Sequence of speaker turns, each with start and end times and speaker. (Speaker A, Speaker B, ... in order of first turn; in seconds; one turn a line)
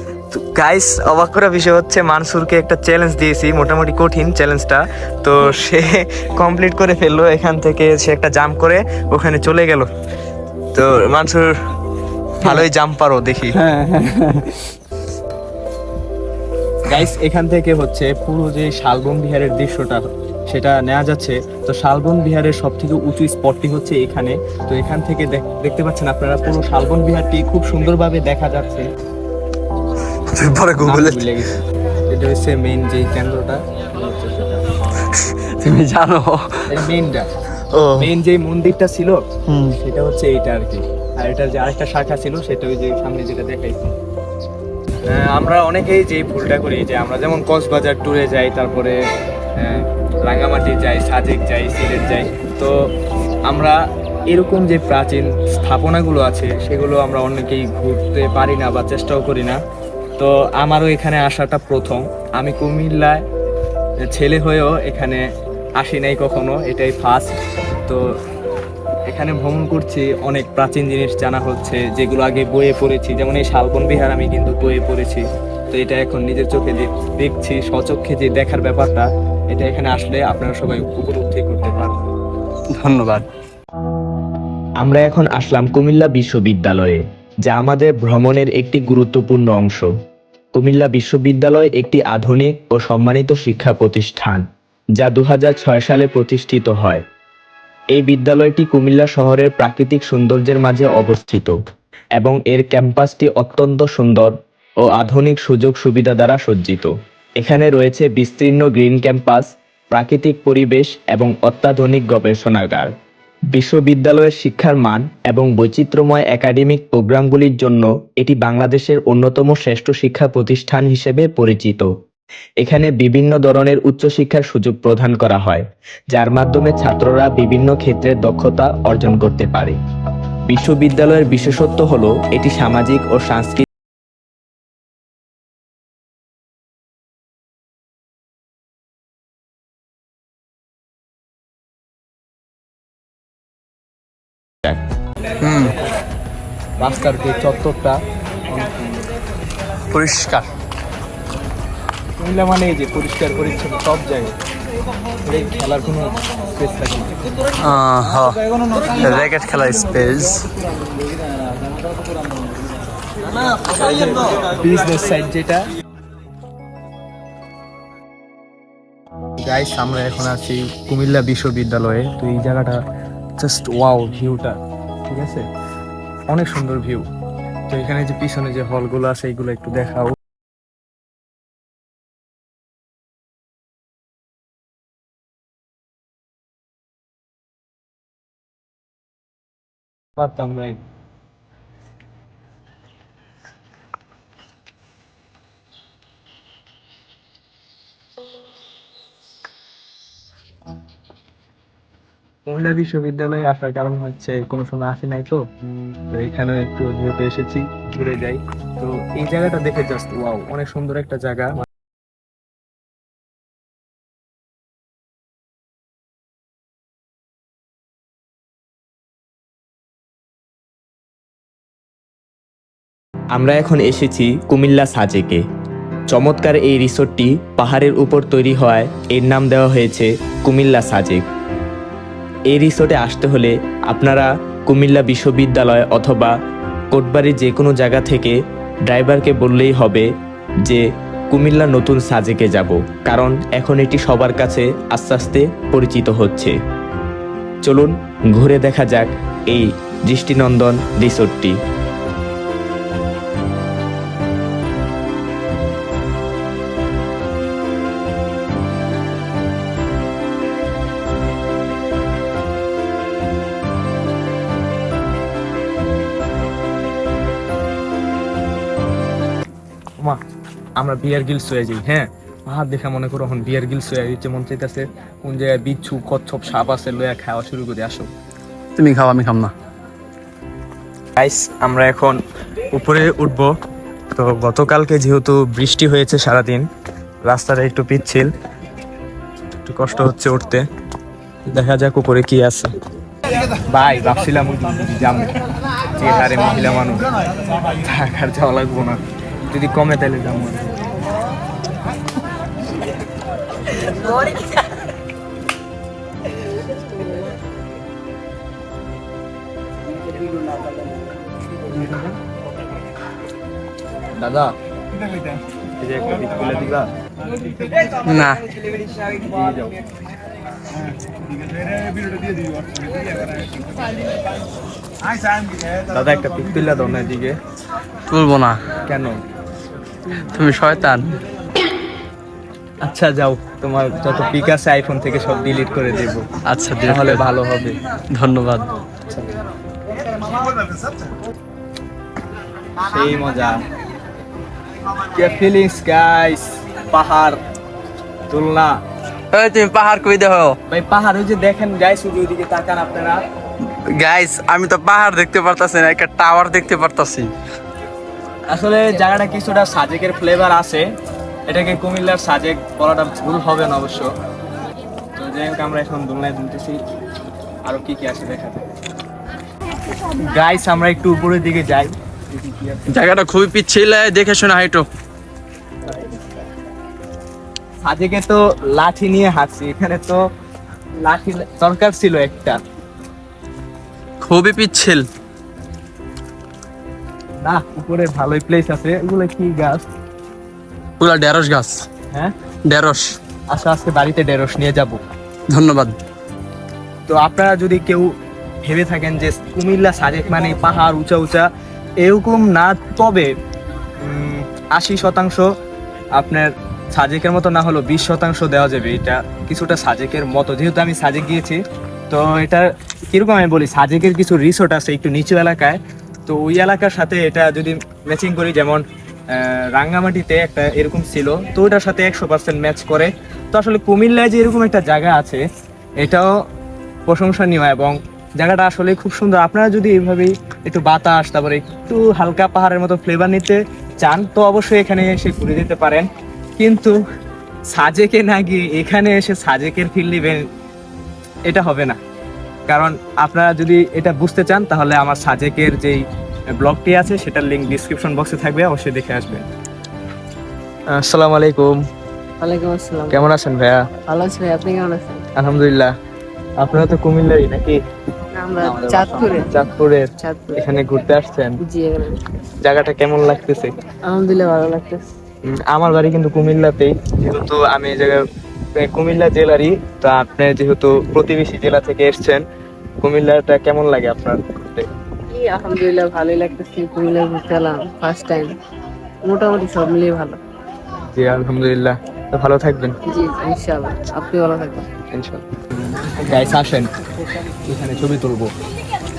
Speaker A: 0.3-9.9
Speaker A: 10.7-11.5
Speaker A: 12.4-13.6
Speaker B: 13.5-14.7
Speaker A: 16.8-28.9
Speaker B: 30.3-31.5
Speaker A: 30.8-34.2
Speaker B: 35.1-36.6
Speaker A: 36.7-37.3
Speaker A: 38.0-39.2
Speaker B: 39.5-39.7
Speaker A: 39.8-43.9
Speaker A: 45.1-49.0
Speaker A: 49.5-52.8
Speaker A: 53.5-59.6
Speaker A: 60.2-63.2
Speaker A: 64.0-65.2
Speaker A: 65.8-67.3
Speaker A: 67.8-68.2
Speaker A: 69.1-82.0
Speaker B: 82.7-83.2
Speaker C: 84.8-89.9
Speaker C: 90.5-97.0
Speaker C: 97.9-101.6
Speaker C: 102.2-112.9
Speaker C: 113.5-121.9
Speaker C: 122.6-129.8
Speaker C: 130.5-133.7
Speaker B: 145.4-145.7
Speaker A: 146.8-148.0
Speaker B: 149.9-150.4
Speaker A: 152.2-154.3
Speaker A: 155.2-157.2
Speaker B: 157.6-160.5
Speaker A: 163.8-165.7
Speaker A: 169.4-172.8
Speaker A: 173.4-175.4
Speaker A: 176.3-177.1
Speaker A: 177.7-180.2
Speaker A: 190.2-190.8
Speaker A: 202.4-205.4
Speaker A: 206.1-211.6
Speaker C: 223.3-225.4
Speaker C: 226.1-231.2
Speaker C: 232.5-236.3
Speaker C: 236.9-240.1
Speaker C: 240.6-246.6
Speaker C: 247.6-251.6
Speaker A: 270.8-278.1
Speaker B: 278.8-279.5
Speaker A: 281.2-283.5
Speaker A: 284.1-286.7
Speaker A: 287.2-288.3
Speaker A: 289.6-290.7
Speaker A: 291.5-292.7
Speaker A: 293.7-295.3
Speaker A: 295.9-297.1
Speaker A: 297.8-300.7
Speaker A: 314.1-314.5
Speaker A: 315.8-316.9
Speaker B: 318.0-318.4
Speaker A: 319.3-319.7
Speaker A: 325.9-327.4
Speaker B: 328.1-328.6
Speaker A: 328.9-329.2
Speaker B: 330.1-331.1
Speaker A: 332.8-336.3
Speaker B: 336.4-337.3
Speaker A: 336.9-337.8
Speaker B: 338.1-338.7
Speaker A: 342.8-343.6
Speaker A: 345.1-347.4
Speaker A: 348.3-348.8
Speaker B: 349.3-350.6
Speaker A: 350.7-353.2
Speaker B: 353.9-357.3
Speaker A: 358.5-360.8
Speaker A: 361.5-364.1
Speaker A: 365.1-366.8
Speaker A: 367.6-368.7
Speaker A: 370.2-372.9
Speaker B: 372.9-374.9
Speaker A: 377.8-380.2
Speaker A: 381.0-382.6
Speaker B: 384.2-385.1
Speaker A: 387.4-389.8
Speaker B: 391.0-391.9
Speaker B: 392.6-393.1
Speaker A: 393.5-395.0
Speaker B: 395.5-395.9
Speaker A: 397.1-398.1
Speaker A: 398.6-401.5
Speaker A: 402.0-403.3
Speaker A: 404.0-405.5
Speaker A: 406.1-425.4
Speaker A: 426.0-426.3
Speaker A: 427.1-437.0
Speaker A: 437.7-440.5
Speaker A: 441.5-442.0
Speaker A: 442.7-449.4
Speaker A: 450.9-451.8
Speaker D: 452.4-453.3
Speaker A: 453.1-453.9
Speaker D: 454.1-455.2
Speaker A: 455.3-455.9
Speaker A: 456.6-457.8
Speaker D: 458.3-459.5
Speaker B: 458.6-459.4
Speaker A: 459.5-461.6
Speaker D: 460.2-460.6
Speaker D: 461.6-462.2
Speaker A: 462.6-463.7
Speaker D: 464.1-465.1
Speaker A: 465.4-468.2
Speaker A: 468.8-472.4
Speaker A: 473.0-474.9
Speaker D: 475.3-478.6
Speaker D: 479.2-480.4
Speaker A: 481.1-482.9
Speaker D: 483.1-484.9
Speaker A: 485.1-485.4
Speaker A: 486.1-486.9
Speaker A: 487.6-488.5